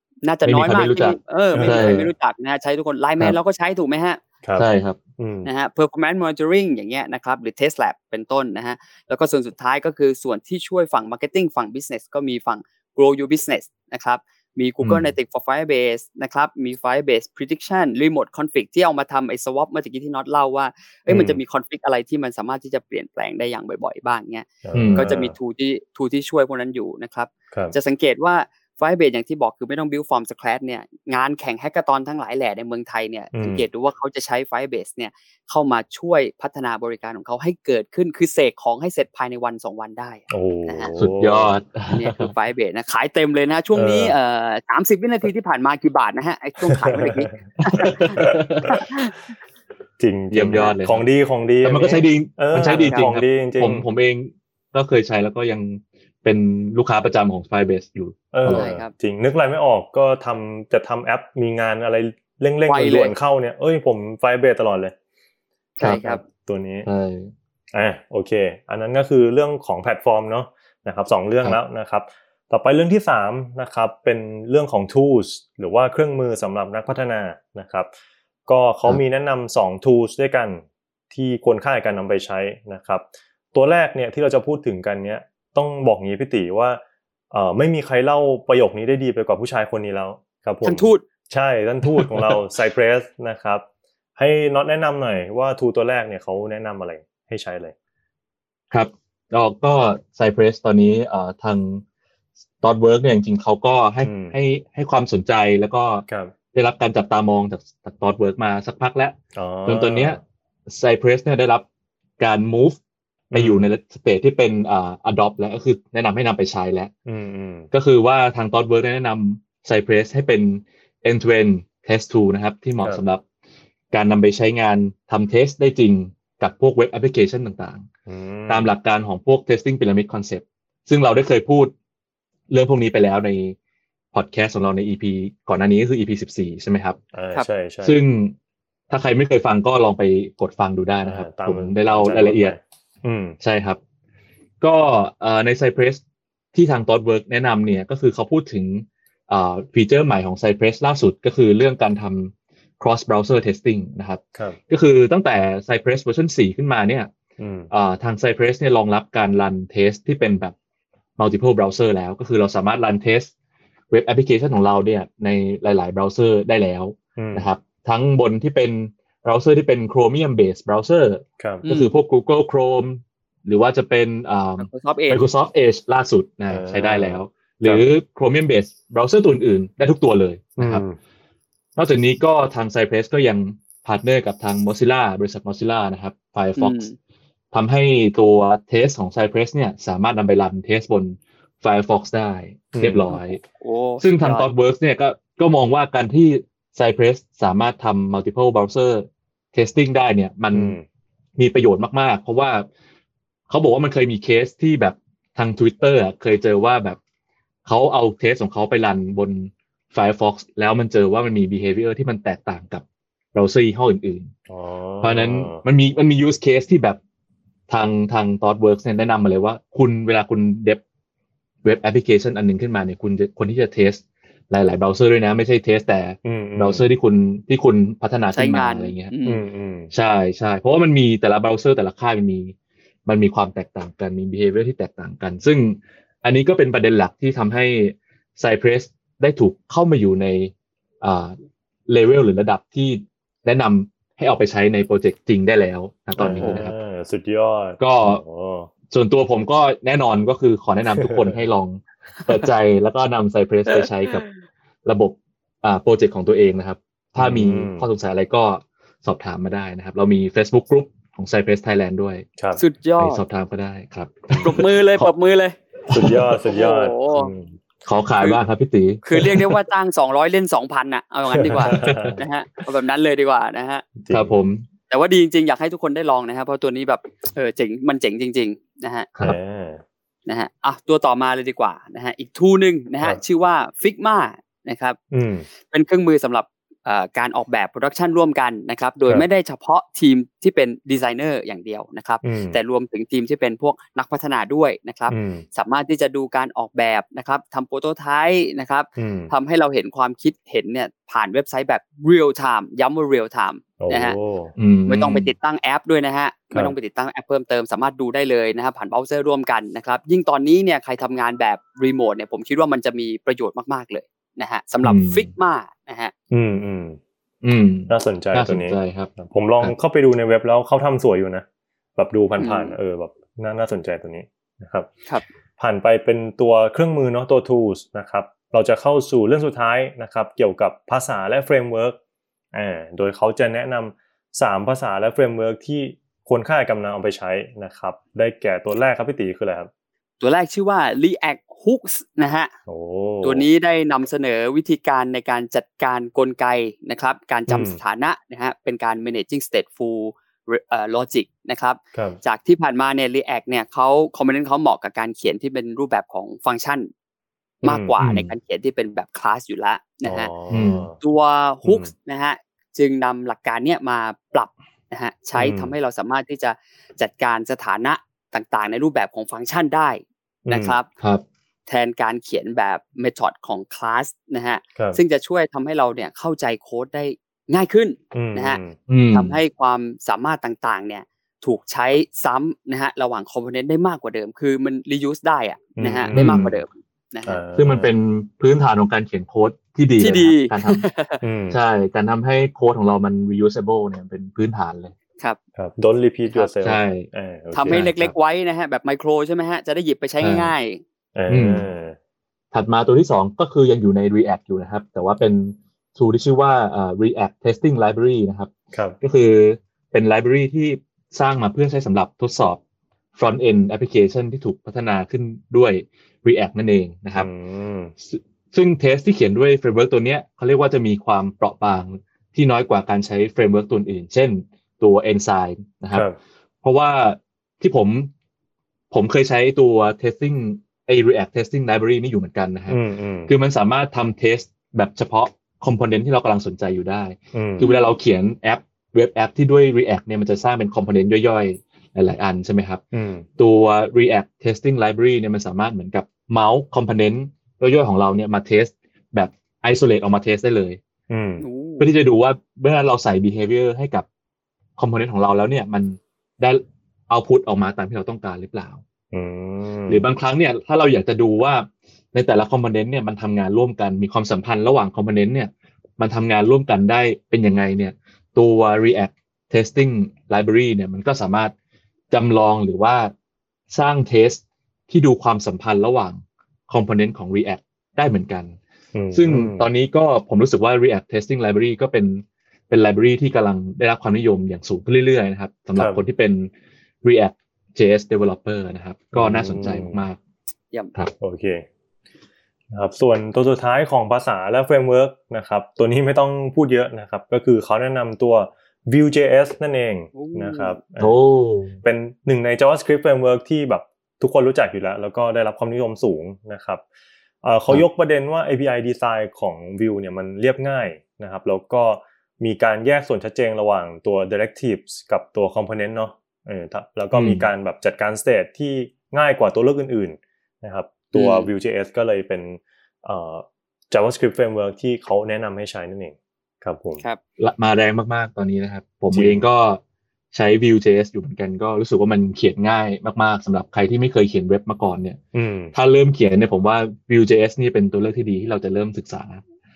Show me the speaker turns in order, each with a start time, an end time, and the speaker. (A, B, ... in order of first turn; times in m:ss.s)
0:00.2-0:04.2 A
0:00.4-0:02.0 B
0:01.5-0:02.1 C
0:04.6-0:05.0 B
0:05.2-0:05.5 C
0:05.4-0:40.9 A
0:14.8-0:15.1 B
0:21.1-0:21.4 C
0:24.6-0:25.3 C
0:24.7-0:25.1 B
0:33.3-0:33.6 C
0:40.3-0:41.6 C
0:41.0-0:42.3 B
0:41.9-0:48.3 A
0:43.7-0:44.1 C
0:46.8-0:48.8 C
0:47.7-0:48.7 B
0:48.8-0:49.1 A
0:50.0-0:53.8 C
0:50.3-0:51.1 B
0:51.6-0:58.7 B
0:52.6-0:53.1 A
0:58.3-1:04.9 C
0:58.5-0:58.9 A
1:02.7-1:03.2 A
1:05.8-1:06.2 A
1:05.8-1:06.2 B
1:05.8-1:06.9 C
1:06.8-1:07.3 B
1:07.7-1:17.9 C
1:18.5-1:33.6 C
1:30.6-1:31.0 A
1:32.0-1:32.4 B
1:34.2-1:37.7 C
1:38.7-1:41.8 B
1:42.6-1:51.6 B
1:44.0-1:44.3 C
1:46.1-1:46.3 C
1:49.3-1:50.2 C
1:52.2-1:52.8 B
1:53.3-1:53.6 C
1:53.3-1:56.9 B
1:57.1-1:57.7 C
1:57.7-2:03.2 B
2:03.9-2:07.8 B
2:08.1-2:08.7 C
2:08.5-2:11.7 B
2:12.5-2:13.6 B
2:14.1-2:17.0 B
2:17.1-2:18.0 C
2:17.8-2:18.4 B
2:18.9-2:22.6 B
2:21.0-2:23.4 C
2:23.4-2:23.8 B
2:24.6-2:26.0 B
2:26.5-2:37.1 B
2:37.4-2:37.7 C
2:37.7-2:40.5 B
2:41.2-2:43.3 B
2:43.9-3:00.8 B
2:47.2-2:47.5 C
2:51.4-2:51.6 C
2:51.6-2:51.9 A
2:54.6-2:55.2 A
2:56.5-2:57.8 C
3:00.6-3:01.0 C
3:01.8-3:06.8 B
3:06.6-3:07.0 A
3:07.5-3:13.4 B
3:12.7-3:13.1 C
3:13.5-3:14.5 A
3:14.0-3:20.8 B
3:20.5-3:20.8 C
3:21.4-3:22.7 B
3:23.5-3:27.0 B
3:27.6-3:34.3 B
3:34.5-3:35.6 C
3:35.0-3:37.0 B
3:37.7-3:40.8 B
3:41.6-3:49.1 B
3:46.2-3:46.9 C
3:48.3-3:49.4 A
3:49.2-3:49.9 C
3:49.9-3:52.5 B
3:53.0-4:01.3 B
4:01.9-4:06.7 B
4:06.2-4:08.7 C
4:07.8-4:08.2 B
4:08.9-4:14.2 B
4:10.9-4:11.4 C
4:13.7-4:14.3 A
4:14.8-4:22.2 B
4:17.2-4:17.8 C
4:22.6-4:23.2 A
4:23.0-4:25.1 B
4:24.3-4:24.6 C
4:24.4-4:25.6 A
4:25.8-4:26.4 B
4:25.9-4:27.6 C
4:26.5-4:27.3 A
4:27.8-4:29.5 B
4:29.0-4:33.8 A
4:31.3-4:32.2 C
4:31.7-4:32.2 B
4:34.0-4:34.3 C
4:34.1-4:34.6 B
4:34.9-4:39.1 A
4:39.2-4:39.8 C
4:40.3-4:45.0 A
4:45.1-4:45.5 C
4:45.6-5:04.1 A
4:52.2-4:52.6 C
4:55.1-4:55.4 C
4:59.0-4:59.3 C
5:03.8-5:04.5 C
5:04.6-5:05.3 B
5:04.9-5:16.1 A
5:14.8-5:15.3 B
5:16.3-5:17.0 C
5:17.4-5:19.7 B
5:17.9-5:21.4 C
5:22.0-5:24.9 C
5:22.4-5:22.7 A
5:25.6-5:32.0 C
5:32.5-5:39.7 C
5:40.2-5:42.5 A
5:42.7-5:43.5 C
5:43.2-5:56.9 A
5:47.5-5:47.8 C
5:51.9-5:52.2 C
5:57.6-6:00.3 A
5:57.6-5:58.0 C
5:58.0-5:58.3 B
6:00.0-6:00.9 C
6:00.5-6:00.8 B
6:01.0-6:10.9 A
6:01.6-6:01.9 C
6:05.4-6:05.7 C
6:10.4-6:10.8 C
6:11.7-6:27.4 A
6:18.1-6:18.8 C
6:18.9-6:19.4 B
6:25.8-6:26.4 C
6:26.1-6:26.6 B
6:27.2-6:27.9 C
6:27.6-6:30.9 B
6:30.0-6:31.2 A
6:31.2-6:31.6 C
6:31.5-6:34.9 B
6:35.6-6:37.8 C
6:36.6-6:37.1 B
6:37.5-6:40.8 A
6:37.7-6:38.1 B
6:40.2-6:40.5 B
6:41.1-6:42.0 C
6:41.3-6:41.7 B
6:42.5-6:52.6 B
6:53.2-6:57.3 B
6:57.2-6:57.9 C
6:58.0-7:06.0 B
7:05.9-7:06.2 C
7:06.6-7:08.1 B
7:08.9-7:22.8 B
7:12.7-7:13.3 C
7:17.3-7:17.6 C
7:17.6-7:17.9 A
7:22.9-7:23.2 C
7:23.4-7:30.8 B
7:31.1-7:31.4 C
7:31.4-7:31.9 A
7:31.8-7:34.0 B
7:34.8-7:38.8 B
7:39.1-7:40.0 C
7:39.9-7:51.5 B
7:52.1-7:53.1 B
7:53.7-7:58.6 B
7:58.9-7:59.6 C
7:59.1-8:06.5 B
8:05.8-8:06.0 C
8:07.0-8:10.2 B
8:09.1-8:10.0 C
8:11.2-8:11.6 C
8:12.7-8:21.1 C
8:20.1-8:20.8 A
8:21.0-8:21.8 B
8:21.8-8:26.8 C
8:27.4-8:47.0 C
8:37.1-8:37.5 B
8:41.1-8:41.5 A
8:47.4-8:49.8 B
8:49.1-8:49.4 C
8:50.3-8:55.2 B
8:55.3-8:55.7 C
8:55.7-8:59.4 B